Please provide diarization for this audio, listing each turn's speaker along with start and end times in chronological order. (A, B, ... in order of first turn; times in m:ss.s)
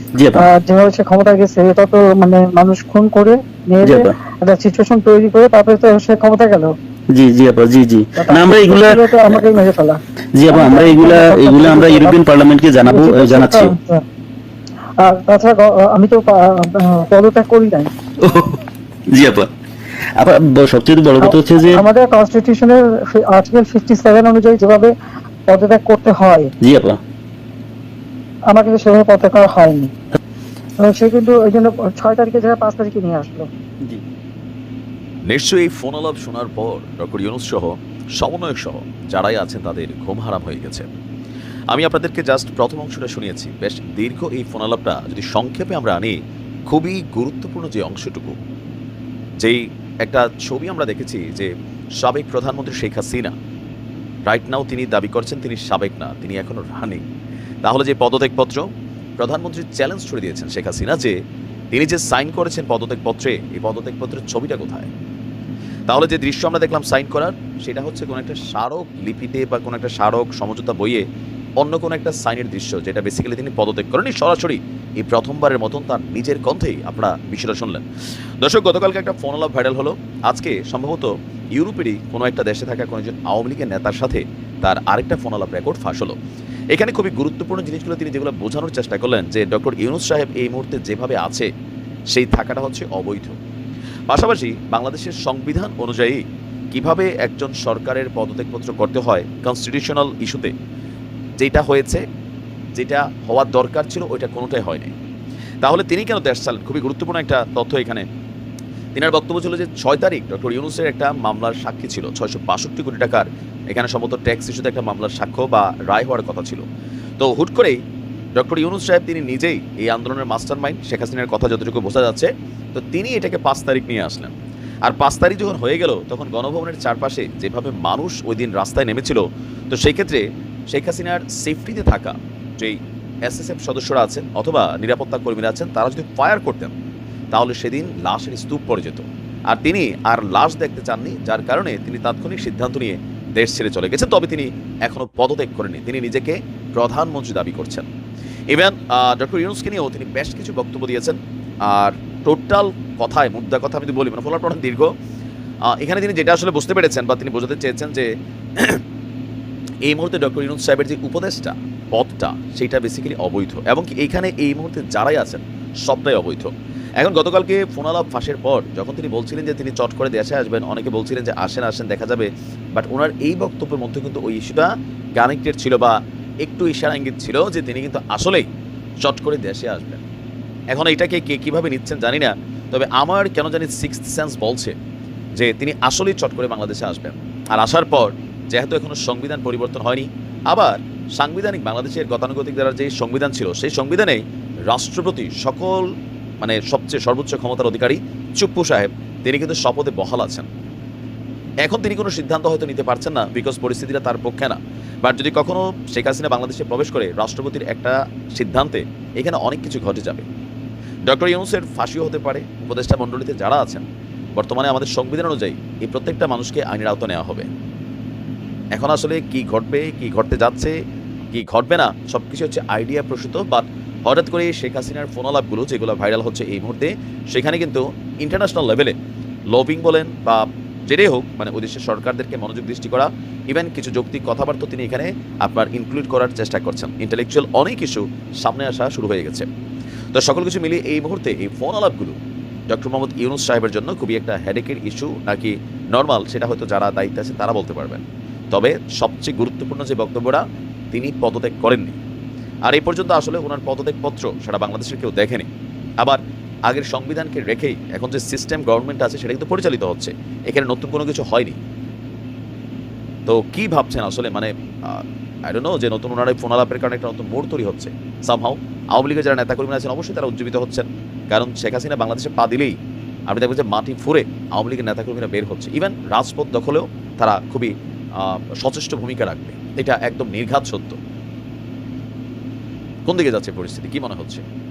0:00.2-0:00.4 A
0:00.4-0:06.7 B
0:03.8-0:04.2 A
0:07.1-0:09.4 A
0:08.2-0:12.2 B
0:10.3-0:13.7 A
0:12.8-0:14.0 B
0:15.0-0:17.9 B
0:18.2-0:18.6 A
0:19.1-0:19.5 A
0:20.2-0:21.8 A
0:21.2-0:24.9 B
0:25.5-0:26.5 B
0:26.6-0:27.0 A
0:28.5-0:29.9 B
0:30.8-0:33.5 B
0:35.3-0:40.9 C
0:41.7-0:46.1 C
0:46.7-0:48.4 C
0:49.4-0:53.3 C
0:54.2-0:57.0 C
0:57.6-0:58.6 C
0:59.2-1:01.1 C
1:01.7-1:04.9 C
1:05.9-1:11.0 C
1:11.6-1:17.8 C
1:18.4-1:26.2 C
1:26.7-1:31.5 C
1:32.1-1:33.4 C
1:34.1-1:40.5 C
1:41.4-1:42.0 C
1:42.7-1:44.9 C
1:45.6-1:48.0 C
1:48.9-1:56.6 C
1:57.2-1:57.8 C
1:58.3-2:04.3 C
2:04.8-2:16.7 C
2:17.3-2:27.9 C
2:28.5-2:34.9 C
2:35.7-2:38.1 C
2:39.9-2:58.4 C
2:59.0-3:00.0 C
3:00.7-3:04.8 C
3:05.4-3:15.9 C
3:16.4-3:20.5 C
3:21.6-3:30.2 C
3:31.1-3:37.5 C
3:38.7-3:40.7 C
3:41.3-3:48.9 C
3:49.5-3:59.5 C
4:00.1-4:02.1 C
4:02.7-4:10.4 C
4:10.9-4:12.0 C
4:12.7-4:15.5 C
4:16.0-4:21.6 C
4:23.3-4:32.7 C
4:33.3-4:41.0 C
4:43.0-4:44.4 C